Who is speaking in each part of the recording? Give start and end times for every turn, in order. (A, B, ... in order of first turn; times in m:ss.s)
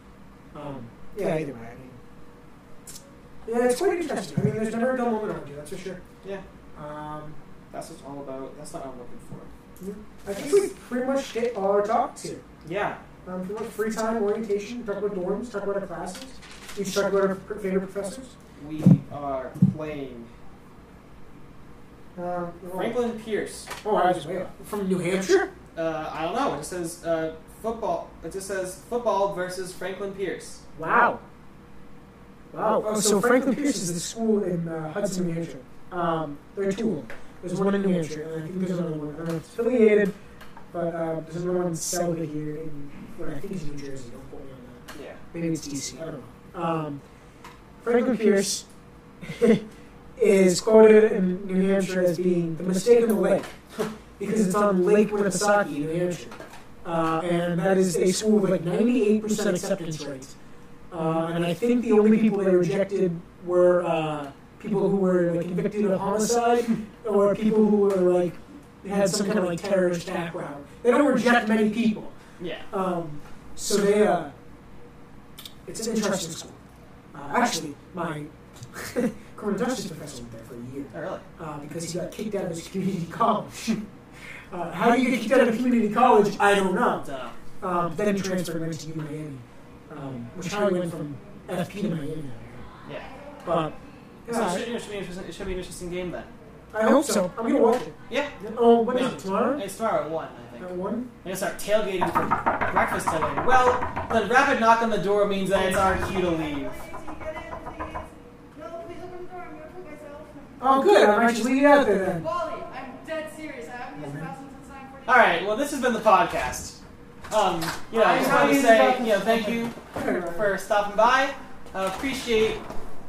0:00.5-0:02.0 A
0:03.4-0:06.0 A
0:06.7-0:07.4 A
0:07.7-0:09.5 B
0:09.8-0:12.4 A
0:10.4-0:10.7 B
0:12.6-0:13.0 B
0:13.2-0:18.3 A
0:18.6-0:20.3 B
0:22.2-0:23.0 A
0:22.7-0:23.7 B
0:23.8-0:25.5 A
0:25.7-0:30.6 B
0:30.7-0:31.2 A
0:32.5-0:40.1 A
0:40.7-0:47.0 A
0:44.9-0:45.2 B
0:47.8-0:48.6 A
0:49.2-0:49.6 A
0:50.2-0:53.5 A
0:54.2-1:00.3 A
1:00.9-1:12.1 A
1:12.4-1:12.7 B
1:12.7-1:14.3 A
1:15.6-1:16.6 A
1:17.1-1:23.8 A
1:20.9-1:21.2 B
1:24.5-1:27.0 A
1:27.0-1:27.4 B
1:27.6-1:32.7 A
1:32.8-1:33.1 B
1:33.4-1:33.7 A
1:34.2-1:34.7 A
1:34.3-1:36.3 B
1:36.7-1:39.6 A
1:38.1-1:46.8 B
1:40.6-1:41.1 A
1:45.5-1:50.7 C
1:50.6-1:52.2 A
1:52.0-1:55.4 C
1:54.0-1:54.3 A
1:55.0-2:02.6 B
1:58.0-2:00.5 A
1:58.0-1:58.8 C